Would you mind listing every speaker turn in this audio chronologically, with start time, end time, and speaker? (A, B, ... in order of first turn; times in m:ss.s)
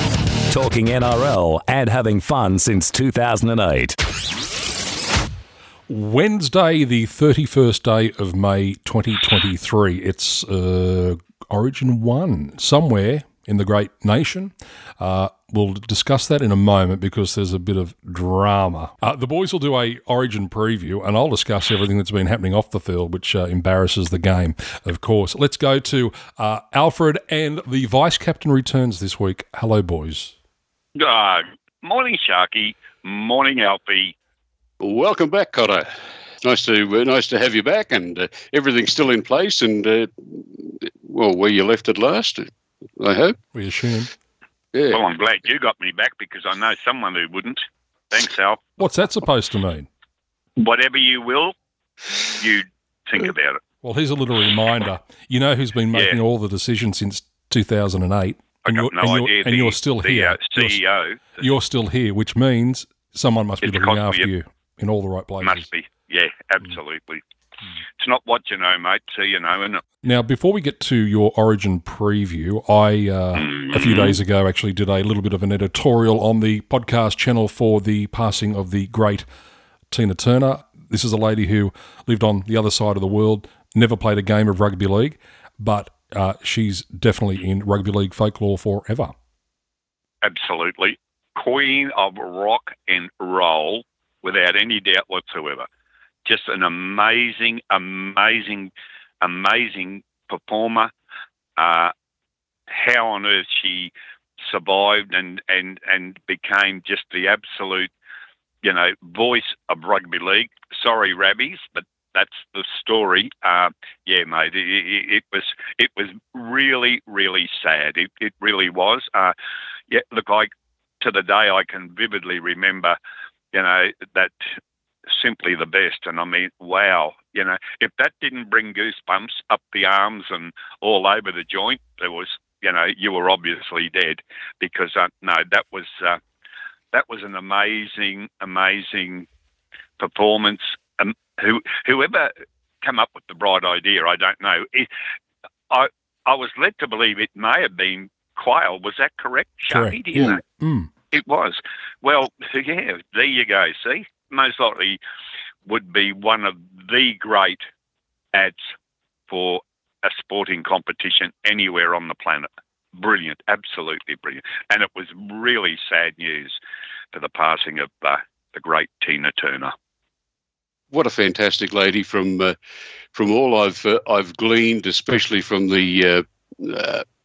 0:00.5-0:04.0 A
0:05.9-0:30.3 B
0:31.0-0:34.1 C
0:34.8-0:35.9 D
0:36.4-0:43.4 D
0:43.5-0:44.1 B
0:44.7-0:45.0 D
0:44.9-0:48.6 C
0:48.8-0:49.9 B
0:50.6-0:51.5 C
0:52.2-0:53.6 C
0:53.8-1:00.8 B
0:55.9-0:56.2 C
0:58.6-1:01.4 C
1:01.4-1:05.7 B
1:03.6-1:04.3 C
1:05.4-1:07.2 C
1:08.0-1:09.8 C
1:10.0-1:19.3 B
1:13.3-1:14.2 C
1:19.9-1:29.1 B
1:30.2-1:35.6 C
1:36.2-1:40.9 C
1:41.6-1:41.9 C
1:42.7-1:47.9 C
1:48.6-1:59.3 C
1:59.9-2:00.5 C
2:01.0-2:03.0 C
2:03.5-2:04.3 C
2:05.1-2:16.2 C
2:16.9-2:19.3 C
2:20.0-2:24.9 C
2:25.7-2:30.4 C
2:29.7-2:30.9 B
2:31.1-2:35.0 C
2:35.6-2:37.6 C
2:39.3-2:46.6 C
2:47.1-2:49.7 C
2:50.9-2:52.5 D
2:53.1-2:57.0 D